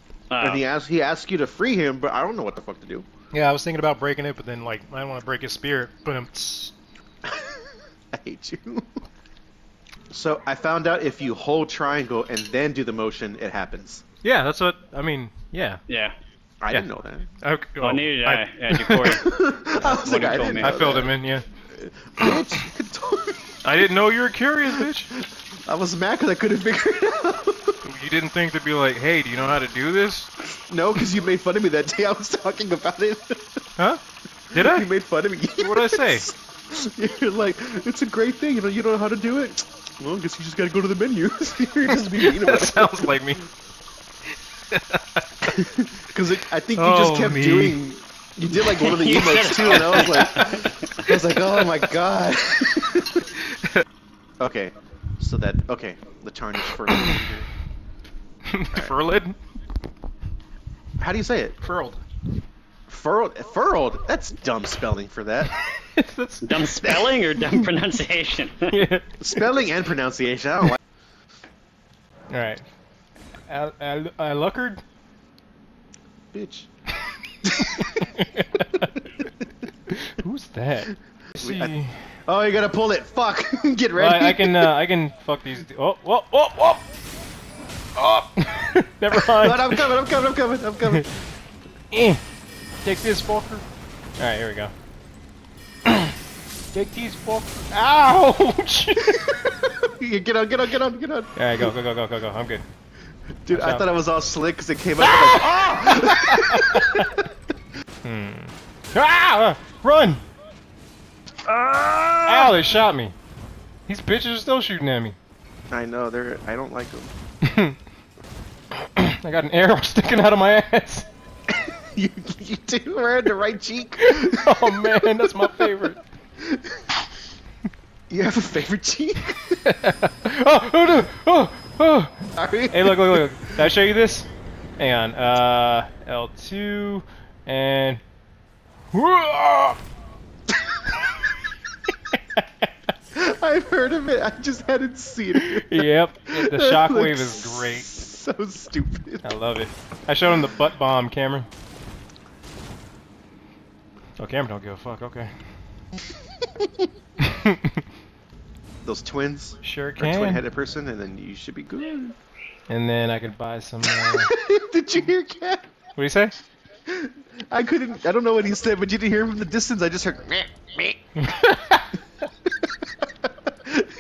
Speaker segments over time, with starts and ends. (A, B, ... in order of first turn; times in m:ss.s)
0:00.3-0:00.6 A
0:00.4-0:03.1 B
0:03.3-0:06.7 C
0:07.3-0:07.6 B
0:08.1-0:08.9 B
0:10.1-0:14.0 B
0:14.2-0:15.8 C
0:15.9-0:16.1 A
0:16.6-0:17.3 B
0:17.4-0:19.2 C
0:17.8-0:20.8 A
0:19.0-0:21.1 B
0:20.6-0:21.4 C
0:21.7-0:23.6 B
0:22.2-0:22.6 C
0:23.6-0:25.1 C
0:24.7-0:27.8 B
0:27.8-0:30.3 C
0:30.6-0:33.4 B
0:34.5-0:34.9 C
0:34.5-0:43.2 B
0:35.6-0:36.2 C
0:41.8-0:43.4 C
0:44.7-0:45.5 C
0:45.5-0:53.3 B
0:46.8-0:47.8 C
0:48.8-0:51.1 A
0:49.9-0:50.7 C
0:54.4-0:57.5 B
0:58.5-0:59.4 C
1:01.0-1:01.6 B
1:01.6-1:02.0 C
1:02.9-1:05.5 B
1:05.5-1:07.7 C
1:06.4-1:08.7 A
1:08.7-1:09.5 C
1:09.2-1:10.8 B
1:12.3-1:12.6 C
1:13.5-1:14.8 C
1:16.3-1:16.7 B
1:17.5-1:18.0 B
1:17.6-1:18.9 C
1:19.9-1:22.0 C
1:21.4-1:21.7 B
1:22.3-1:24.7 B
1:24.0-1:26.8 C
1:28.0-1:29.9 C
1:29.4-1:31.1 B
1:31.9-1:32.2 C
1:32.8-1:33.6 C
1:34.2-1:34.7 C
1:35.9-1:36.2 C
1:36.7-1:39.2 C
1:39.0-1:41.7 B
1:41.4-1:42.6 C
1:43.4-1:47.3 B
1:43.5-1:43.9 C
1:45.0-1:47.1 C
1:48.0-1:50.2 C
1:51.5-1:52.6 B
1:52.3-1:53.2 C
1:53.9-1:55.2 C
1:55.7-1:57.1 B
1:57.4-1:57.8 C
1:59.0-2:01.1 C
2:01.5-2:05.9 B
2:04.0-2:06.0 C
2:06.5-2:06.8 B
2:08.1-2:09.6 B
2:09.5-2:12.2 C
2:12.4-2:13.7 B
2:12.7-2:14.3 C
2:14.8-2:18.0 C
2:18.9-2:19.8 C
2:23.1-2:29.3 B
2:25.3-2:27.9 C
2:29.2-2:31.5 C
2:34.2-2:35.3 C
2:36.4-2:36.7 B
2:37.2-2:37.8 C
2:38.8-2:42.2 B
2:39.6-2:40.4 C
2:42.7-2:44.3 C
2:43.8-2:45.7 B
2:46.0-2:46.3 C
2:46.9-2:51.0 B
2:51.2-2:51.9 C